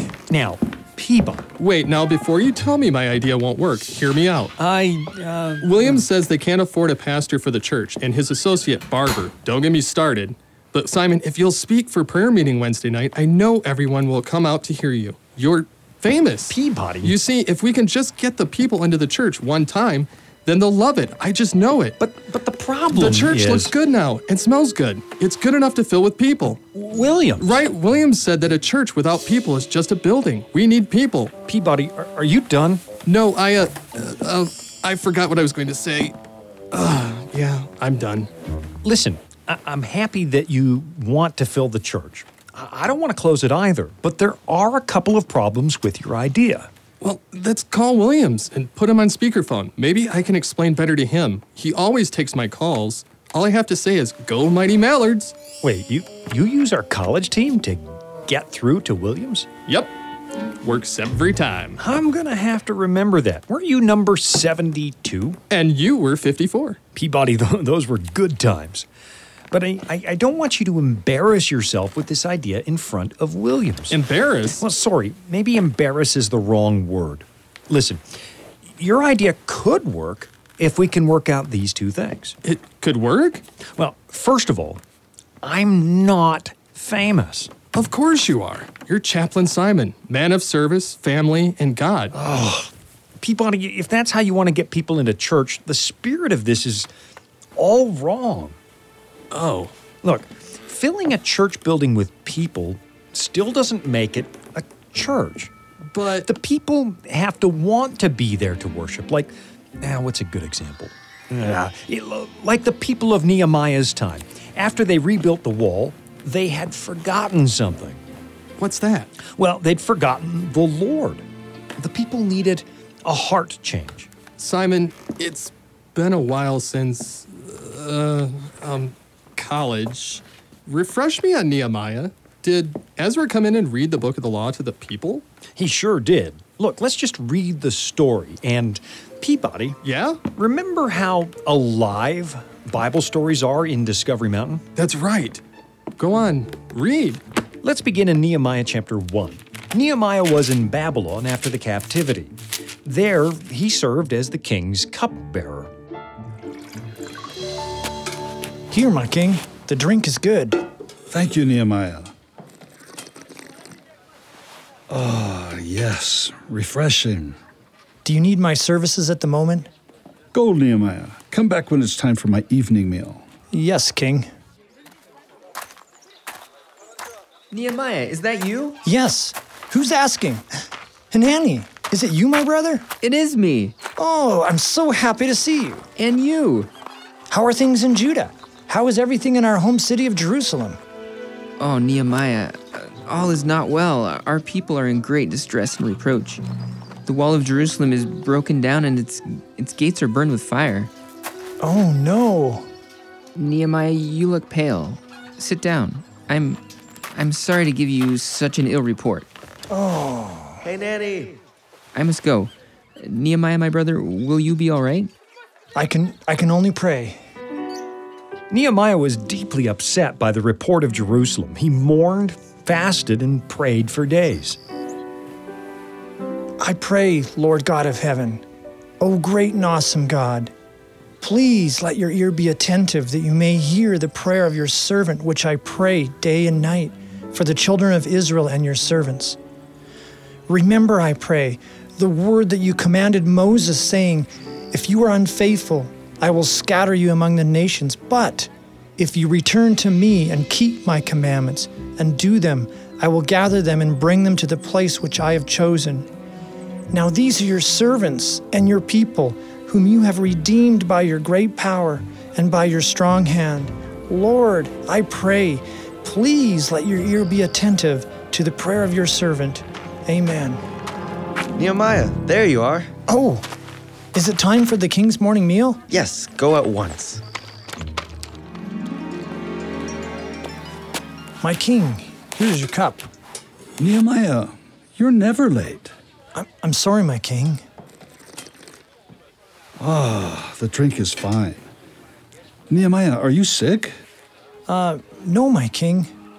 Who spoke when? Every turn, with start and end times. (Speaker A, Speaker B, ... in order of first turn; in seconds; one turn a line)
Speaker A: 0.3-1.5
Speaker B: 1.6-4.6
Speaker A: 4.6-6.1
Speaker B: 5.6-22.0
Speaker A: 16.5-17.2
Speaker A: 22.0-23.7
Speaker B: 22.9-26.6
Speaker A: 26.7-27.5
Speaker B: 27.4-31.3
Speaker A: 31.4-32.8
Speaker B: 33.1-36.1
Speaker B: 36.7-38.3
Speaker A: 38.8-46.7
Speaker B: 47.0-55.4
Speaker A: 55.6-59.5
Speaker B: 59.7-59.9
Speaker B: 60.6-61.8
Speaker A: 61.8-65.4
Speaker B: 65.5-66.8
Speaker A: 67.0-68.9
Speaker A: 69.5-74.0
Speaker B: 73.9-74.6
Speaker A: 74.6-78.0
Speaker A: 78.8-82.4
Speaker B: 82.4-83.4
Speaker A: 83.8-84.8
Speaker A: 85.4-87.5
Speaker B: 87.7-92.2
Speaker A: 92.1-96.9
Speaker A: 97.6-98.6
Speaker B: 99.3-99.7
Speaker A: 100.0-105.5
Speaker B: 105.9-106.3
Speaker A: 106.3-118.0
Speaker B: 118.6-119.1
Speaker A: 119.3-121.2
Speaker A: 121.8-124.1
Speaker B: 124.4-135.2
Speaker A: 135.6-139.8
Speaker B: 139.8-140.2
Speaker A: 140.3-144.6
Speaker B: 144.8-145.4
Speaker B: 146.0-147.2
Speaker A: 147.6-155.7
Speaker C: 158.7-160.6
Speaker D: 161.1-162.1
Speaker D: 164.9-167.4
Speaker C: 168.0-169.7
Speaker D: 170.3-173.2
Speaker C: 173.5-174.3
Speaker E: 177.5-178.8
Speaker C: 178.8-180.4
Speaker C: 181.1-182.9
Speaker E: 183.0-183.8
Speaker C: 184.0-185.9
Speaker E: 186.0-186.7
Speaker C: 187.3-190.8
Speaker E: 191.6-196.4
Speaker E: 197.1-200.9
Speaker C: 201.6-202.7
Speaker E: 203.3-206.6
Speaker E: 207.1-209.3
Speaker C: 209.7-210.6
Speaker F: 210.6-211.4
Speaker E: 211.9-215.1
Speaker C: 215.8-217.2
Speaker A: 218.5-224.6
Speaker C: 226.6-228.4
Speaker C: 229.0-230.5
Speaker C: 231.2-239.4
Speaker C: 240.5-256.1
Speaker C: 256.9-270.6
Speaker F: 271.6-272.9
Speaker C: 273.1-273.4
Speaker C: 274.1-275.8
Speaker F: 275.9-277.2
Speaker C: 281.4-283.1
Speaker D: 283.8-285.9
Speaker C: 286.4-287.6
Speaker D: 289.8-291.6
Speaker D: 292.7-293.9
Speaker C: 294.7-296.1